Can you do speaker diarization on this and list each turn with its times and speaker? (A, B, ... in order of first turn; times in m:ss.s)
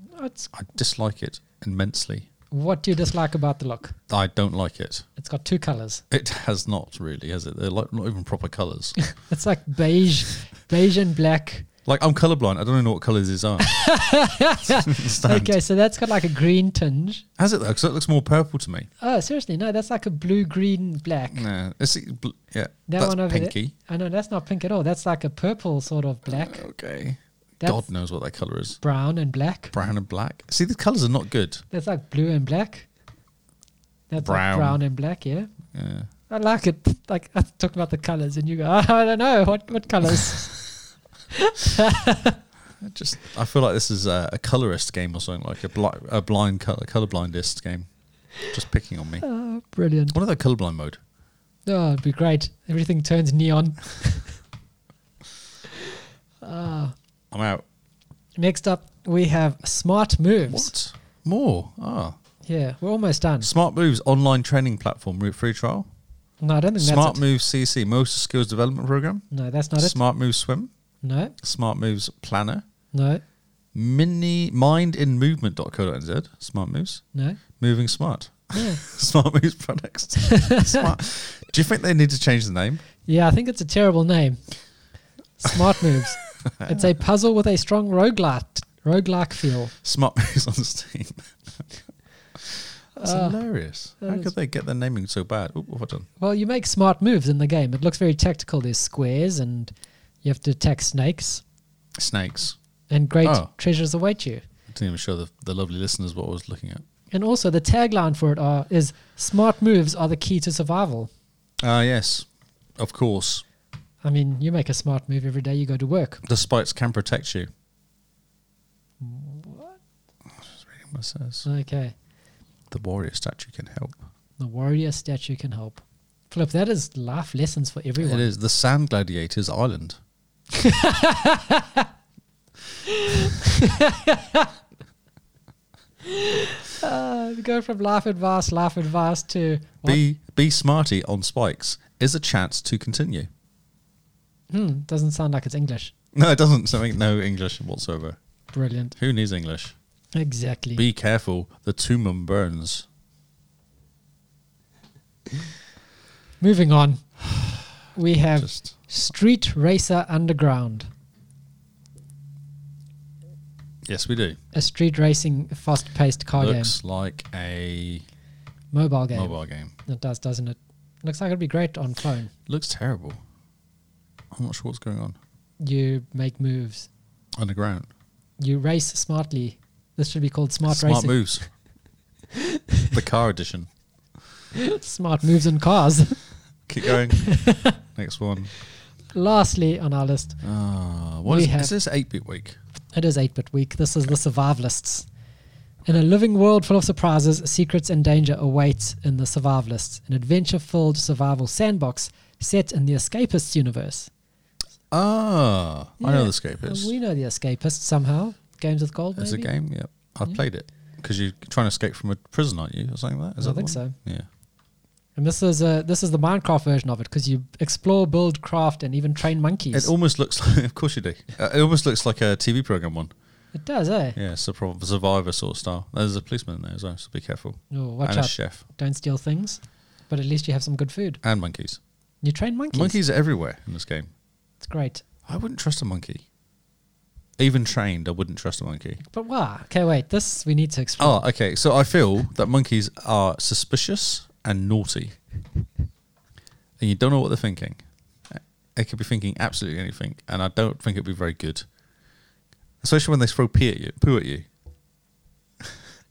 0:00.1-0:00.5 A
0:00.5-0:02.3 B
0:02.5-0:04.0 A
0:04.1-0:05.1 B
0:05.2-0:06.0 A
0:06.1-0:09.0 B
0:09.2-0:11.7 A
0:11.9-0:13.7 B
0:13.6-0:17.2 A
0:14.8-0:15.5 B
0:17.4-0:18.9 B
0:19.0-0:21.5 A
0:21.3-0:23.7 B
0:22.9-0:26.6 A
0:26.3-0:28.8 B
0:27.6-0:27.9 A
0:28.8-0:29.7 A
0:29.7-0:31.6 B
0:31.7-0:32.9 A
0:34.1-0:35.5 A
0:34.2-0:34.8 B
0:35.7-0:36.1 B
0:36.3-0:40.6 A
0:41.3-0:42.4 A
0:42.8-0:47.9 B
0:48.4-0:49.2 B
0:49.2-0:50.2 A
0:50.1-0:51.0 B
0:51.7-0:54.4 A
0:56.4-0:57.0 A
0:57.3-0:57.6 B
0:58.4-1:00.7 A
1:00.5-1:02.2 B
1:02.4-1:03.5 A
1:03.4-1:05.9 B
1:06.4-1:07.2 A
1:06.8-1:09.2 B
1:09.3-1:10.0 A
1:09.8-1:10.7 B
1:11.0-1:11.4 A
1:11.4-1:12.6 B
1:12.9-1:13.2 A
1:13.7-1:17.0 B
1:17.1-1:17.4 A
1:17.6-1:22.8 B
1:18.5-1:18.8 A
1:20.3-1:20.9 A
1:23.1-1:24.4 A
1:25.4-1:29.7 A
1:26.4-1:26.9 B
1:29.8-1:31.6 B
1:32.4-1:36.1 B
1:33.0-1:33.4 A
1:34.0-1:34.3 A
1:36.2-1:39.7 A
1:40.2-1:41.4 A
1:42.0-1:42.6 B
1:42.9-1:44.4 A
1:43.2-1:43.5 B
1:44.7-1:46.8 B
1:47.1-1:51.1 A
1:51.6-1:53.4 B
1:54.0-1:56.2 A
1:56.2-1:57.5 B
1:59.0-1:59.8 A
2:00.4-2:01.5 B
2:01.4-2:01.9 A
2:02.7-2:04.0 B
2:04.4-2:08.3 A
2:08.0-2:10.0 B
2:10.5-2:11.9 A
2:12.8-2:14.5 A
2:16.0-2:20.0 A
2:19.8-2:23.3 B
2:24.5-2:25.9 A
2:26.1-2:28.2 B
2:28.5-2:29.0 A
2:29.0-2:29.8 B
2:30.1-2:30.8 A
2:30.8-2:32.9 B
2:36.4-2:37.0 A
2:37.3-2:37.6 B
2:37.9-2:40.9 A
2:38.4-2:38.7 B
2:43.8-2:44.4 B
2:44.5-2:46.7 A
2:46.4-2:48.0 B
2:48.7-2:52.3 A
2:49.1-2:49.7 B
2:52.5-2:53.2 B
2:54.3-2:55.2 B
2:55.6-2:56.9 A
2:57.4-2:57.9 B
2:58.4-3:01.2 A
3:00.7-3:01.5 B
3:02.4-3:02.9 A
3:02.9-3:03.7 B
3:04.6-3:06.2 A
3:06.7-3:08.5 B
3:06.9-3:07.8 A
3:09.1-3:10.4 A
3:10.4-3:12.6 B
3:11.2-3:11.7 A
3:12.9-3:15.1 A
3:15.9-3:24.1 A
3:24.9-3:26.9 B
3:26.0-3:29.5 A
3:29.2-3:34.3 B
3:33.4-3:34.0 A
3:35.2-3:39.9 A
3:39.7-3:43.1 B
3:43.6-3:44.2 A
3:44.2-3:48.6 B
3:47.7-3:51.2 A
3:51.2-3:51.8 B
3:52.2-3:53.0 A
3:52.7-3:54.1 B
3:54.6-3:55.0 A
3:55.3-3:56.2 B
3:57.4-3:59.0 B
3:59.0-4:01.2 A
4:01.0-4:05.2 B
4:06.8-4:11.7 B
4:12.8-4:14.5 B